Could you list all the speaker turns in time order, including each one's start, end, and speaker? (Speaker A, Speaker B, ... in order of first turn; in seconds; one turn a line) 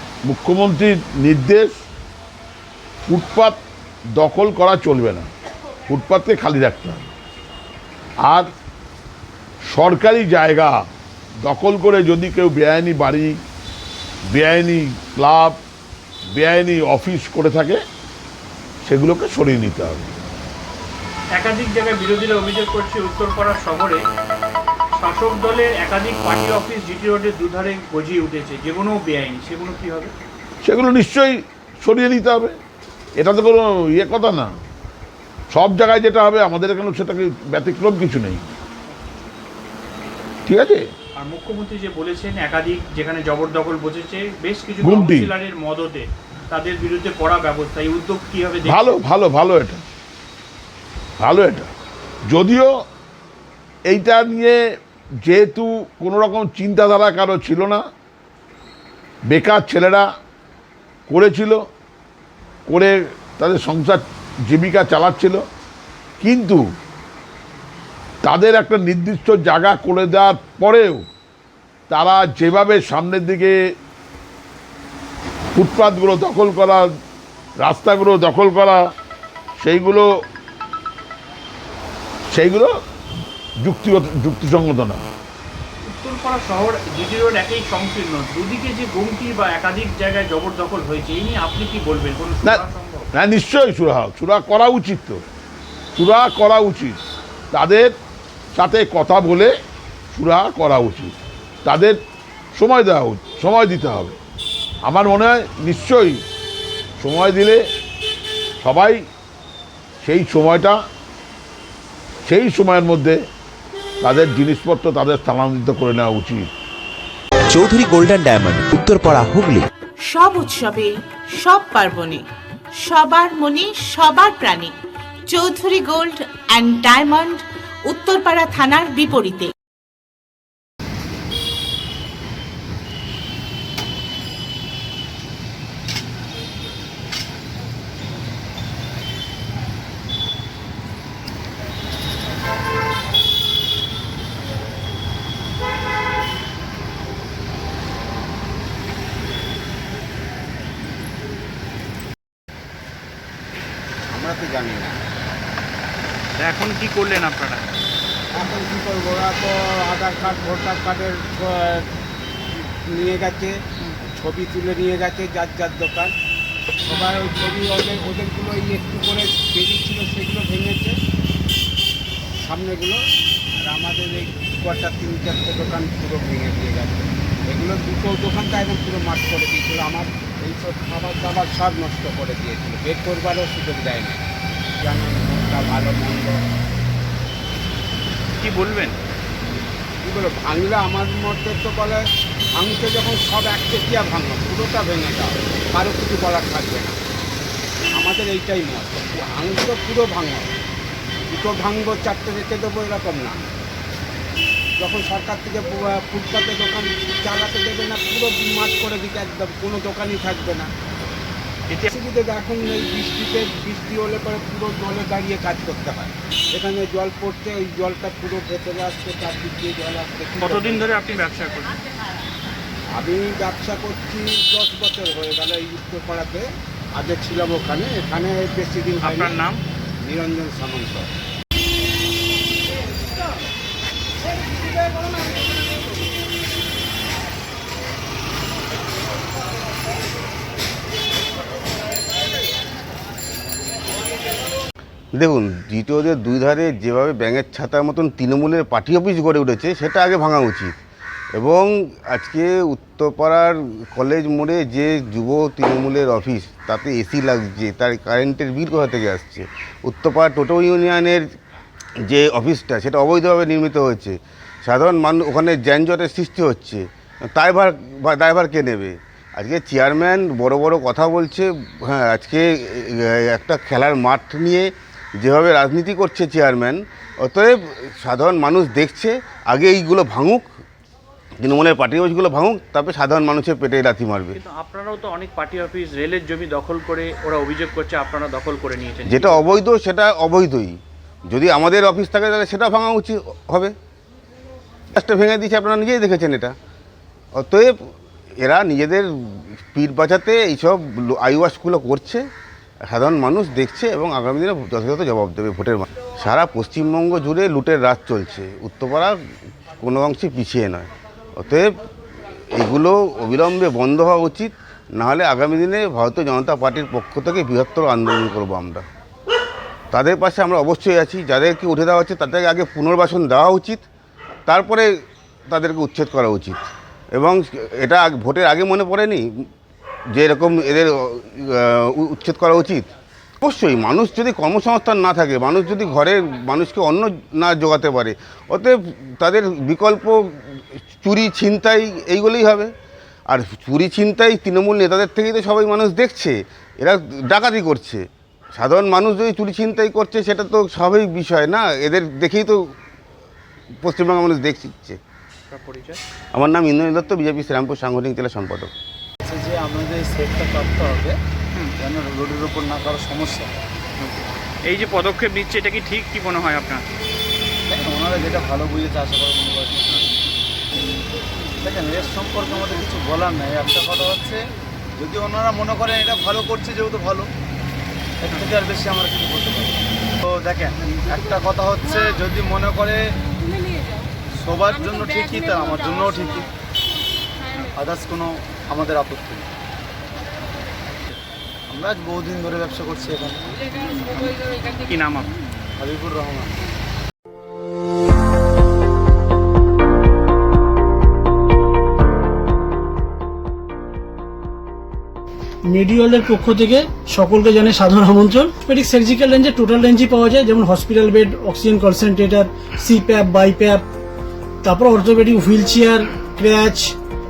Speaker A: 0.2-1.8
Speaker A: 3.1-3.6
Speaker A: 4.2-5.3
Speaker A: 5.9-7.0
Speaker A: 9.7-10.8
Speaker A: 11.4-13.3
Speaker A: 14.3-15.6
Speaker A: 16.4-17.8
Speaker A: 18.8-20.1
Speaker B: 21.4-24.0
Speaker B: 25.0-30.1
Speaker A: 30.6-32.6
Speaker A: 33.2-34.5
Speaker A: 35.5-38.5
Speaker A: 40.5-40.8
Speaker B: 41.2-49.0
Speaker A: 44.8-45.3
Speaker A: 48.6-49.8
Speaker A: 51.2-51.7
Speaker A: 52.3-52.7
Speaker A: 53.9-54.6
Speaker A: 55.3-57.8
Speaker A: 59.3-60.0
Speaker A: 61.1-61.6
Speaker A: 62.7-65.4
Speaker A: 66.2-66.6
Speaker A: 68.2-71.0
Speaker A: 71.9-73.5
Speaker A: 75.5-76.8
Speaker A: 77.6-78.8
Speaker A: 79.6-80.0
Speaker A: 82.3-82.7
Speaker A: 83.6-85.0
Speaker B: 85.9-93.1
Speaker A: 92.4-95.2
Speaker A: 96.0-97.0
Speaker A: 97.5-97.9
Speaker A: 98.5-99.5
Speaker A: 100.1-102.0
Speaker A: 102.5-104.2
Speaker A: 104.8-106.2
Speaker A: 107.0-107.6
Speaker A: 108.6-109.0
Speaker A: 110.0-110.8
Speaker A: 112.3-113.2
Speaker A: 114.0-116.5
Speaker C: 117.5-119.7
Speaker D: 120.0-124.7
Speaker D: 125.3-129.5
Speaker E: 154.1-154.9
Speaker B: 156.4-157.6
Speaker E: 158.3-161.8
Speaker E: 162.9-163.5
Speaker E: 164.1-166.1
Speaker E: 166.8-170.9
Speaker E: 172.4-173.0
Speaker E: 173.6-184.2
Speaker E: 184.8-186.4
Speaker B: 188.4-188.9
Speaker E: 190.0-192.0
Speaker E: 192.6-196.9
Speaker E: 198.0-200.5
Speaker E: 201.3-203.4
Speaker E: 204.8-210.7
Speaker E: 211.9-221.0
Speaker B: 220.4-221.8
Speaker E: 223.0-226.4
Speaker E: 227.0-229.4
Speaker B: 229.0-229.6
Speaker E: 230.0-231.1
Speaker F: 245.1-250.8
Speaker F: 251.3-261.2
Speaker F: 262.1-280.5
Speaker F: 281.4-284.4
Speaker B: 284.4-289.5
Speaker F: 289.1-293.7
Speaker F: 294.9-296.5
Speaker F: 297.3-297.8
Speaker F: 298.4-302.2
Speaker F: 302.9-309.2
Speaker F: 309.8-311.7
Speaker F: 312.5-318.8
Speaker F: 319.9-323.8
Speaker F: 324.5-324.9
Speaker F: 325.5-329.2
Speaker F: 330.1-332.9
Speaker F: 333.4-340.4
Speaker F: 340.9-342.7
Speaker F: 343.3-352.6
Speaker F: 353.8-355.0
Speaker B: 355.5-356.0
Speaker F: 356.3-358.7
Speaker G: 359.2-361.2
Speaker G: 361.8-363.6
Speaker B: 364.0-366.9
Speaker G: 367.7-370.0
Speaker G: 371.6-377.3
Speaker G: 378.2-383.2
Speaker G: 384.3-386.5
Speaker G: 387.7-389.5
Speaker G: 391.7-393.8
Speaker B: 394.1-395.3
Speaker G: 395.8-396.7
Speaker H: 405.7-413.9
Speaker H: 414.6-416.9